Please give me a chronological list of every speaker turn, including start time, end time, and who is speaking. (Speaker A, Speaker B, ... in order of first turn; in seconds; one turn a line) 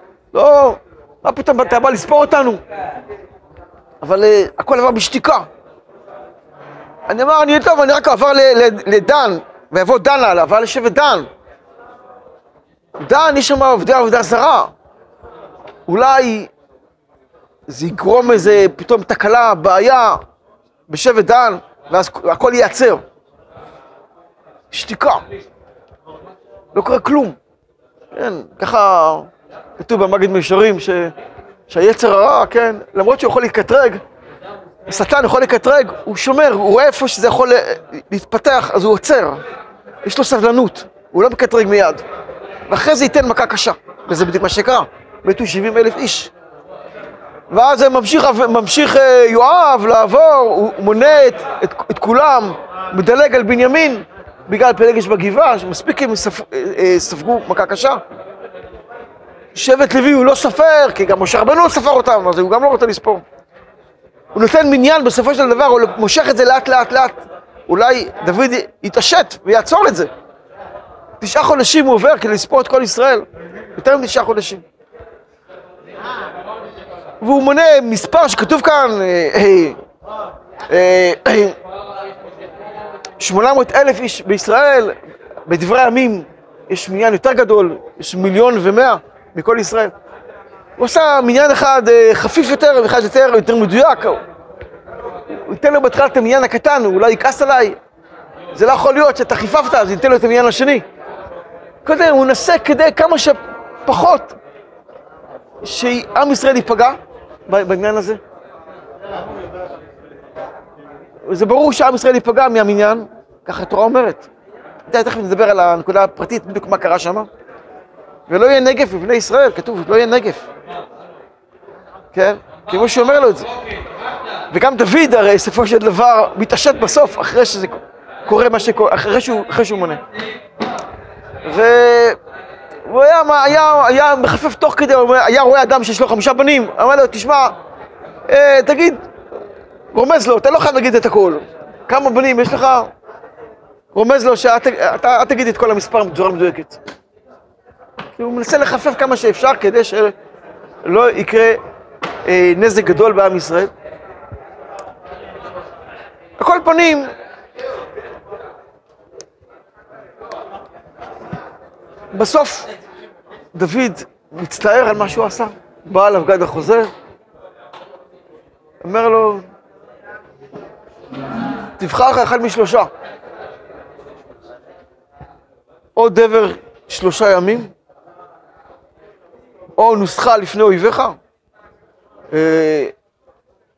Speaker A: 0.3-2.6
Speaker A: 4.0-5.5
Speaker A: 7.1-11.3
Speaker A: 13.0-14.7
Speaker A: 15.9-16.5
Speaker A: 17.7-20.2
Speaker A: 20.9-23.0
Speaker A: 24.7-25.2
Speaker A: 26.7-27.4
Speaker A: 28.1-31.1
Speaker A: 31.7-34.0
Speaker A: 34.9-39.4
Speaker A: 40.0-42.0
Speaker A: 42.7-46.3
Speaker A: 47.5-58.0
Speaker A: 59.5-63.2
Speaker A: 64.3-70.1
Speaker A: 71.2-74.6
Speaker A: 77.2-79.8
Speaker A: 80.7-81.5
Speaker A: 83.2-84.9
Speaker A: 85.5-89.9
Speaker A: 90.8-94.2
Speaker A: 95.4-97.8
Speaker A: 98.5-100.8
Speaker A: 101.8-104.4
Speaker A: 105.6-108.2
Speaker A: 111.3-114.3
Speaker A: 114.9-117.3
Speaker A: 118.3-120.5
Speaker A: 122.1-123.5
Speaker A: 124.5-130.0
Speaker A: 131.4-132.2
Speaker A: 132.9-137.6
Speaker A: 138.3-139.0
Speaker A: 139.9-142.9
Speaker A: 143.9-146.8
Speaker A: 148.2-150.1
Speaker A: 150.8-151.6
Speaker A: 152.2-153.7
Speaker A: 156.4-157.1
Speaker A: 162.1-162.7
Speaker A: 163.5-166.9
Speaker A: 168.8-169.4
Speaker A: 171.8-172.9
Speaker A: 175.9-177.7
Speaker A: 179.8-181.2
Speaker A: 182.3-182.9